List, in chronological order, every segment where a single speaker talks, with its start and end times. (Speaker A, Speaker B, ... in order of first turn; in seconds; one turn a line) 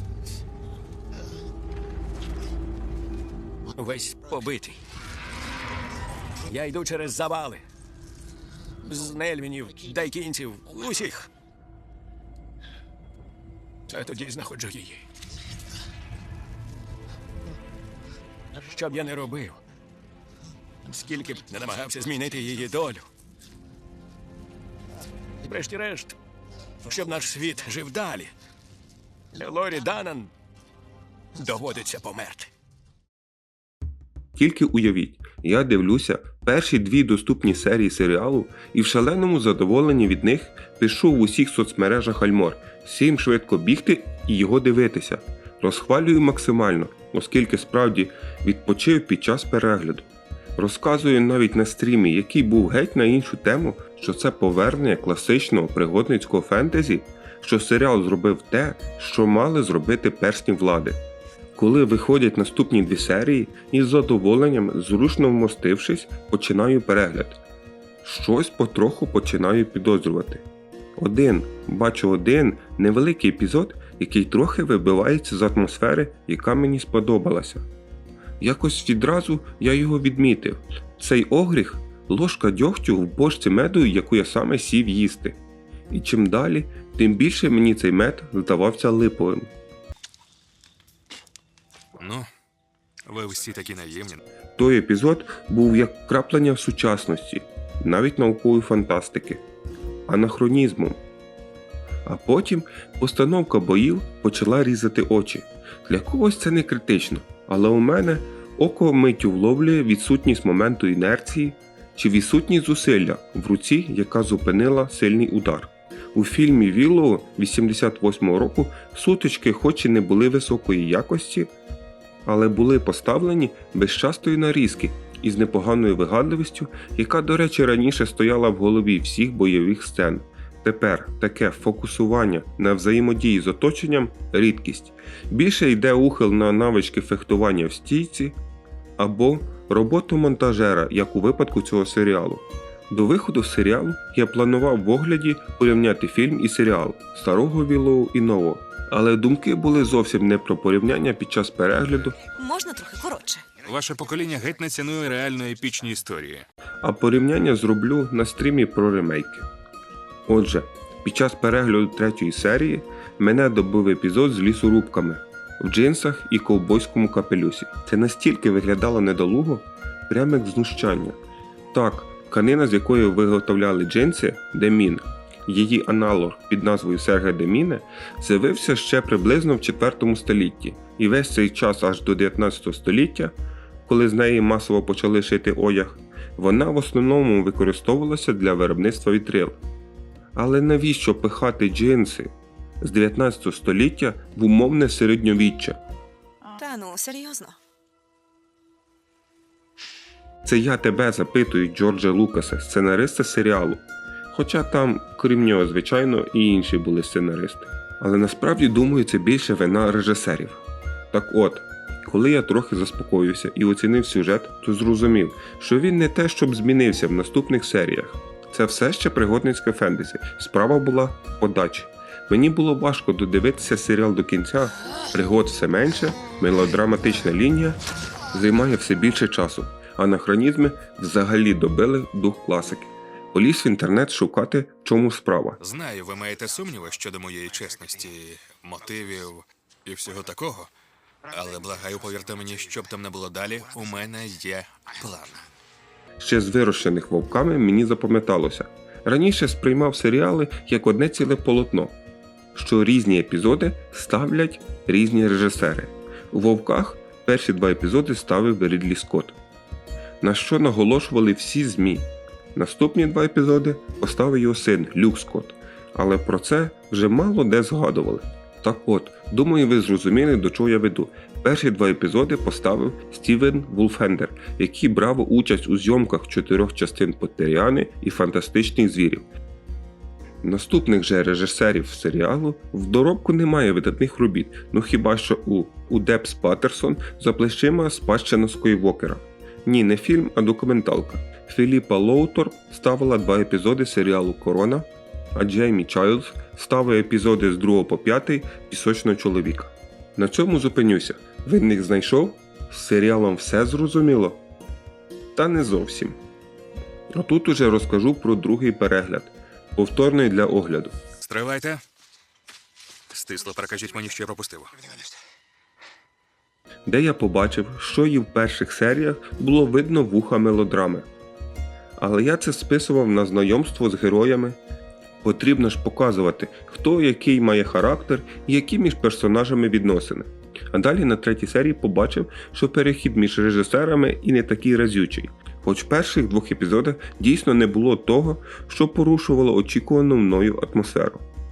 Speaker A: 3.7-4.8
Speaker A: 6.4-7.6
Speaker A: 8.8-11.3
Speaker A: 13.9-15.0
Speaker A: 18.6-19.6
Speaker A: 20.8-23.1
Speaker A: 25.4-26.1
Speaker A: 26.8-28.3
Speaker A: 29.3-30.3
Speaker A: 31.4-32.5
Speaker B: 34.4-61.0
Speaker B: 61.5-67.4
Speaker B: 68.0-70.4
Speaker B: 71.0-77.7
Speaker B: 78.4-85.4
Speaker B: 85.9-89.5
Speaker C: 92.0-92.3
Speaker C: 93.1-94.2
Speaker B: 94.5-99.4
Speaker B: 100.1-101.0
Speaker B: 102.0-121.5
Speaker B: 122.2-138.3
Speaker B: 139.0-152.2
Speaker D: 152.3-153.5
Speaker C: 153.6-156.4
Speaker B: 156.8-159.5
Speaker B: 160.2-171.2
Speaker B: 171.7-189.6
Speaker B: 190.3-195.8
Speaker D: 196.6-197.6
Speaker B: 200.4-227.8
Speaker B: 228.3-235.6
Speaker C: 235.6-240.7
Speaker C: 241.3-245.4
Speaker B: 246.2-251.9
Speaker B: 252.5-259.4
Speaker B: 260.2-279.3
Speaker B: 280.4-304.4
Speaker B: 305.3-306.2
Speaker B: 307.1-310.9
Speaker C: 311.2-311.8
Speaker C: 313.1-314.7
Speaker B: 316.9-321.1
Speaker B: 322.0-324.6
Speaker B: 325.2-341.2